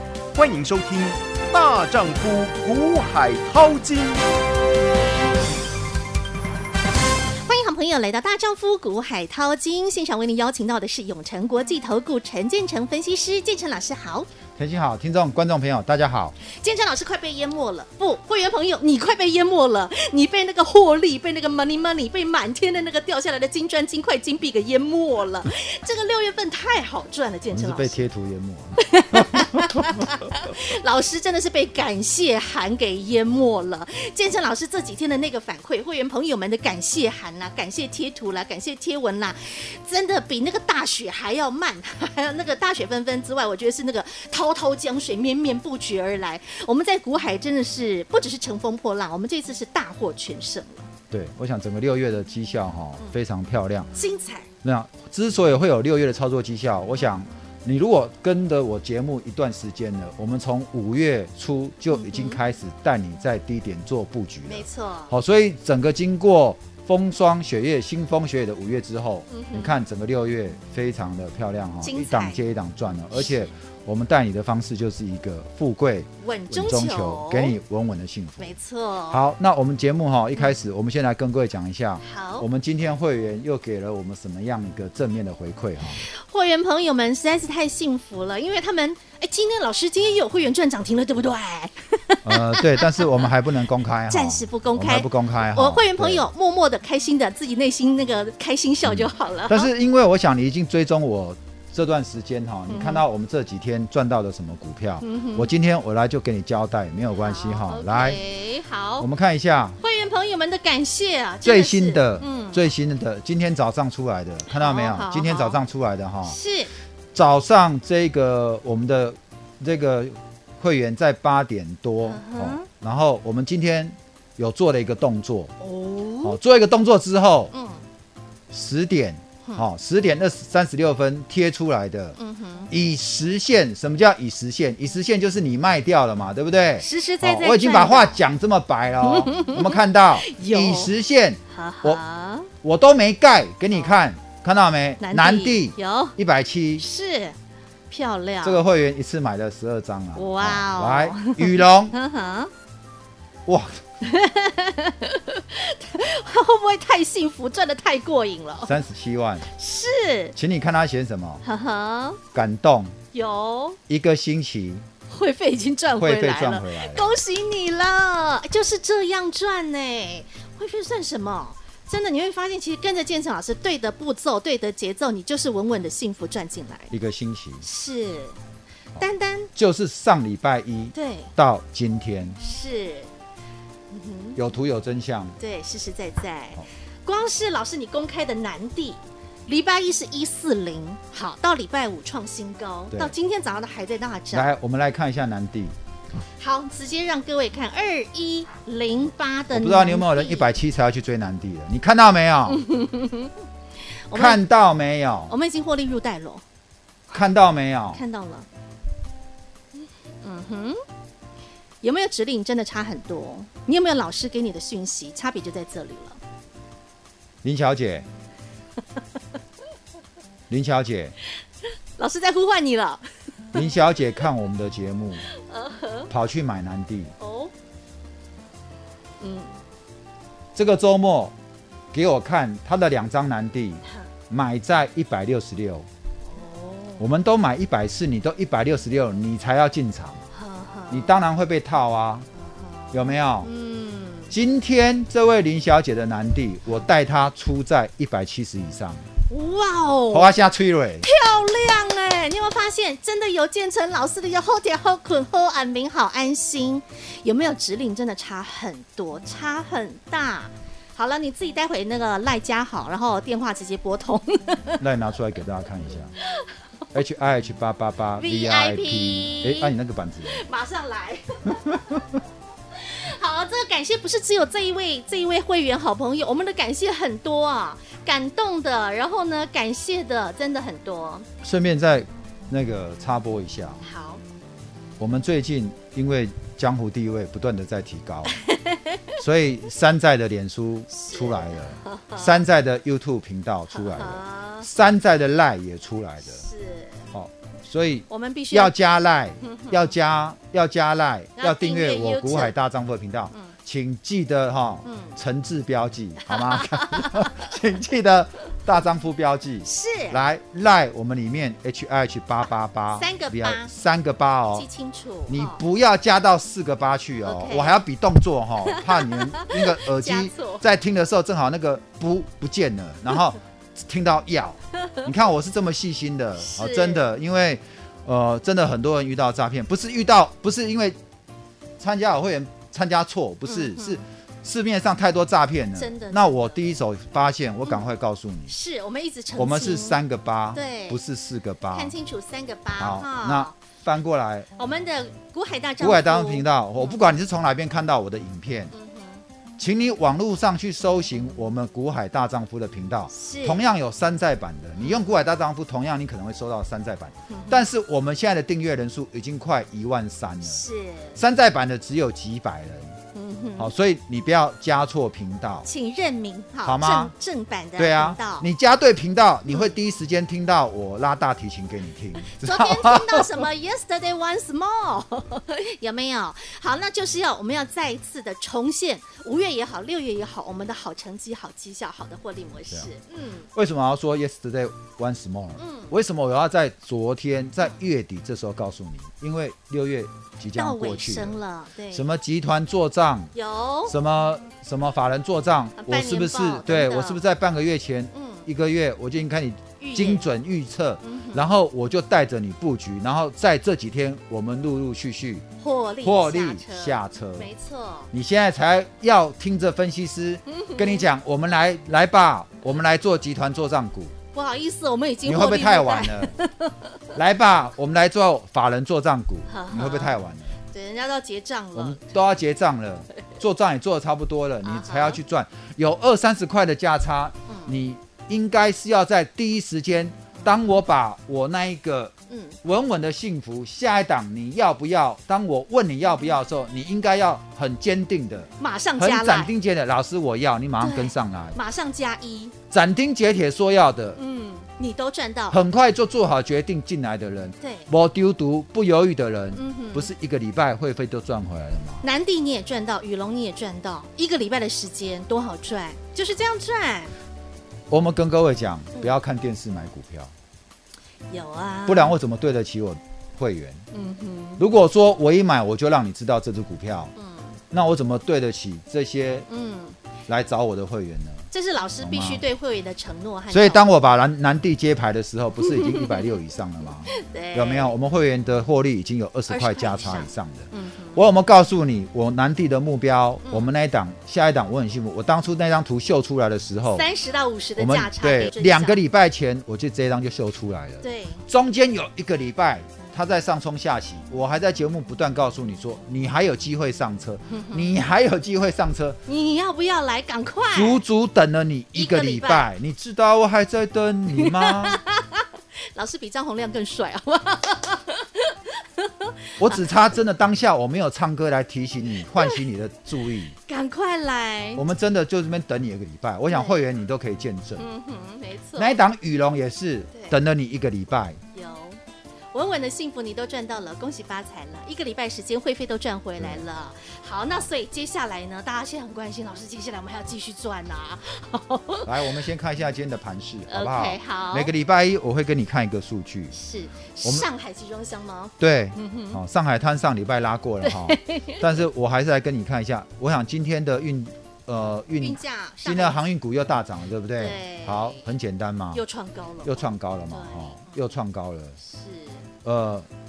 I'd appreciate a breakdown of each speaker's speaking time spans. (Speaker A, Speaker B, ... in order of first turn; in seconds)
Speaker A: 0.3-4.2
Speaker B: 7.4-14.3, 16.5-28.1, 28.8-50.9, 54.0-54.5, 61.9-62.4, 64.5-65.1, 69.3-69.8, 71.8-72.5, 73.1-73.5, 76.2-77.6, 78.4-79.2, 82.0-82.5, 86.0-93.1, 94.1-99.7, 102.7-103.0, 105.0-105.5, 107.2-109.1, 109.8-112.6, 114.5-115.6, 116.2-116.7, 122.0-122.7, 125.6-126.4, 127.5-127.8, 132.2-132.7, 136.8-138.2, 139.0-140.9, 141.5-142.5, 143.7-144.0, 145.0-146.2, 146.8-147.4, 147.9-148.6, 150.2-152.5, 154.0-158.7, 159.5-160.3, 161.4-162.2, 163.1-163.8, 165.1-176.9, 177.6-178.4, 179.0-179.5, 180.9-181.3, 182.4-183.1, 183.9-184.4, 185.4-194.5, 196.4-200.5, 202.5-203.3, 204.1-204.4, 205.3-206.4, 207.9-208.5, 210.2-210.8, 211.8-216.2, 222.0-223.7, 225.3-226.1, 227.2-227.5, 229.2-229.6, 236.2-237.1, 240.3-241.2, 242.4-244.3, 249.3-250.3, 251.0-264.8, 268.2-269.7, 270.3-272.2, 272.7-281.3, 283.8-284.2, 288.4-289.0, 290.9-292.4, 293.7-294.7, 296.2-297.1, 298.1-298.7, 299.4-299.8, 301.4-302.6, 304.8-305.2, 306.2-307.5, 309.6-310.2, 313.0-313.7, 314.5-315.6, 317.2-317.8, 318.6-320.6, 326.4-327.1, 333.5-334.0, 335.8-336.6, 338.5-340.0, 340.5-341.0, 341.7-343.5, 344.6-346.9, 348.7-349.2, 353.1-353.7, 354.8-355.1, 357.3-357.6, 360.4-361.2, 363.1-363.7, 365.6-368.5, 372.2-383.5, 385.6-385.9, 390.6-392.1, 393.3-393.9, 395.8-397.2, 398.1-398.5, 399.8-400.2, 401.0-401.5, 405.6-408.1, 410.5-411.1, 414.3-416.8, 419.5-420.2, 420.7-422.1, 424.6-425.2, 427.5-427.8, 430.4-430.6, 432.3-432.6, 438.6-439.5, 440.8-442.5, 444.2-445.6, 447.6-447.9, 449.5-450.1, 452.0-457.1, 461.3-462.2, 463.9-464.6, 467.2-467.6, 469.5-470.0, 471.5-473.9, 475.7-476.3, 477.1-477.9, 479.5-481.2, 486.9-489.0, 491.0-491.4, 497.5-497.9, 499.3-501.0, 501.9-502.7, 504.4-509.9, 512.4-512.6, 513.7-514.8, 516.5-516.8, 517.8-519.0, 520.1-520.4, 521.5-522.0, 522.5-532.2, 533.7-534.7, 536.5-539.4, 540.8-541.6, 545.2-546.2, 547.4-548.3, 548.9-550.9, 551.8-552.5
Speaker C: 14.6-16.4, 27.5-30.0, 51.1-53.9, 54.6-78.6, 79.1-86.0, 92.2-96.3, 98.8-108.2, 109.0-109.8, 111.4-116.4, 117.1-125.5, 126.2-127.5, 128.5-132.2, 132.7-142.0, 142.6-146.8, 148.4-151.9, 153.5-153.8, 158.6-159.5, 160.3-161.4, 162.3-163.0, 163.9-164.9, 166.0-167.1, 176.9-177.7, 179.0-182.4, 184.3-185.4, 194.3-195.7, 199.5-202.6, 204.1-205.3, 207.1-208.0, 217.4-218.1, 220.5-221.1, 223.5-225.3, 226.1-227.1, 230.6-231.3, 231.9-235.9, 237.0-240.2, 240.9-242.3, 242.9-243.5, 244.3-249.1, 250.1-251.1, 264.8-266.1, 266.9-270.5, 281.4-283.8, 285.0-288.4, 289.2-296.4, 297.1-314.7, 315.3-331.0, 331.8-338.6, 339.3-341.9, 342.8-344.5, 345.8-348.7, 349.6-363.0, 363.6-365.7, 366.6-367.1, 367.8-373.4, 383.5-391.4, 391.9-393.3, 393.9-405.5, 406.0-407.5, 408.1-414.1, 415.2-416.4, 417.1-420.6, 421.8-441.6, 442.7-444.2, 445.5-452.1, 457.9-460.3, 461.9-463.8, 464.6-467.1, 467.7-469.5, 470.3-471.5, 472.0-472.4, 473.5-487.1, 487.8-499.2, 500.7-505.0, 509.6-513.6, 514.8-517.9, 518.8-521.4, 526.4-526.7, 532.1-536.6, 538.6-549.0, 549.6-551.8, 552.6-553.1